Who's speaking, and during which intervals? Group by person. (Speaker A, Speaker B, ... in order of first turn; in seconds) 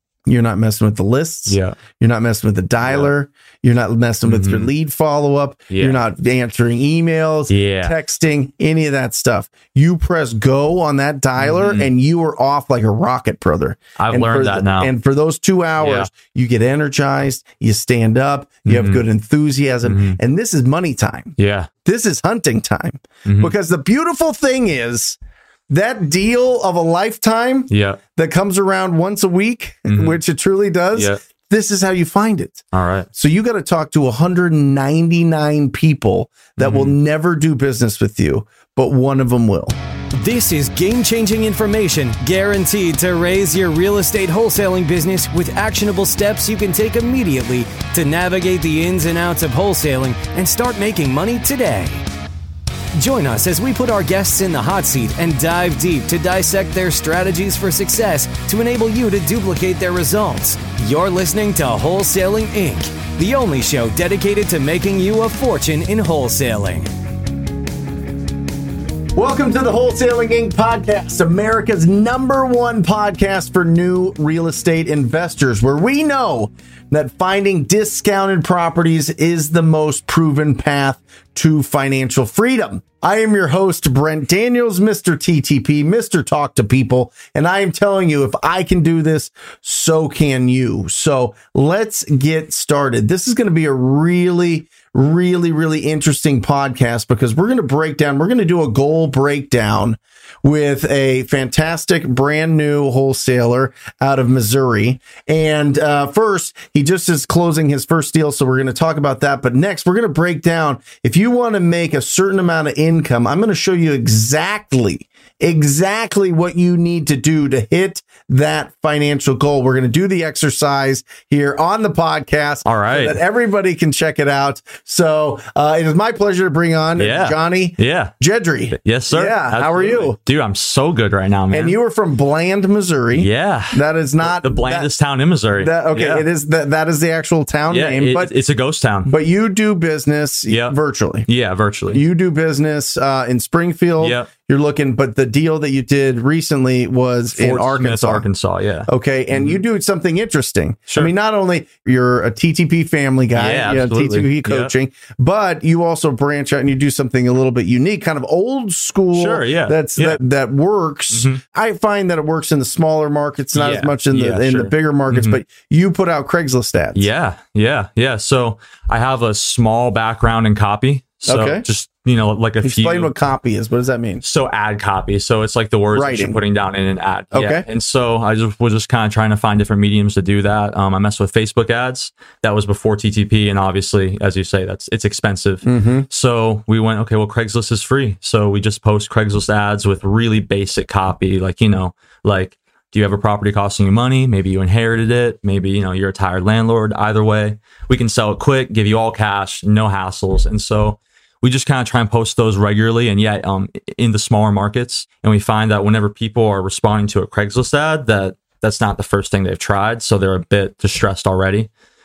Speaker A: 0.3-25.2, 25.7-32.6, 33.1-39.7, 69.1-130.2, 131.5-134.9, 135.6-138.3, 139.1-141.3, 141.9-148.2, 148.9-167.1, 171.2-171.6, 172.6-174.2, 175.9-176.4, 177.3-177.7, 185.6-186.1
Speaker B: 1.5-1.8, 2.8-3.1, 4.2-4.7, 5.7-6.0, 7.5-8.0, 11.4-11.9, 14.0-14.9, 15.8-16.1, 18.7-19.0, 19.8-20.2, 21.4-21.7, 23.2-23.5, 27.7-28.0, 29.9-30.2, 32.7-33.1, 36.6-36.9, 122.6-123.2, 127.0-128.2, 128.7-131.8, 133.1-136.2, 137.7-139.1, 140.5-140.8, 141.3-142.0, 144.0-144.3, 147.3-149.6, 153.3-154.7, 159.1-160.2, 161.1-161.4, 163.5-165.4, 166.9-173.1, 174.2-211.7
Speaker C: 40.1-52.0, 52.9-66.9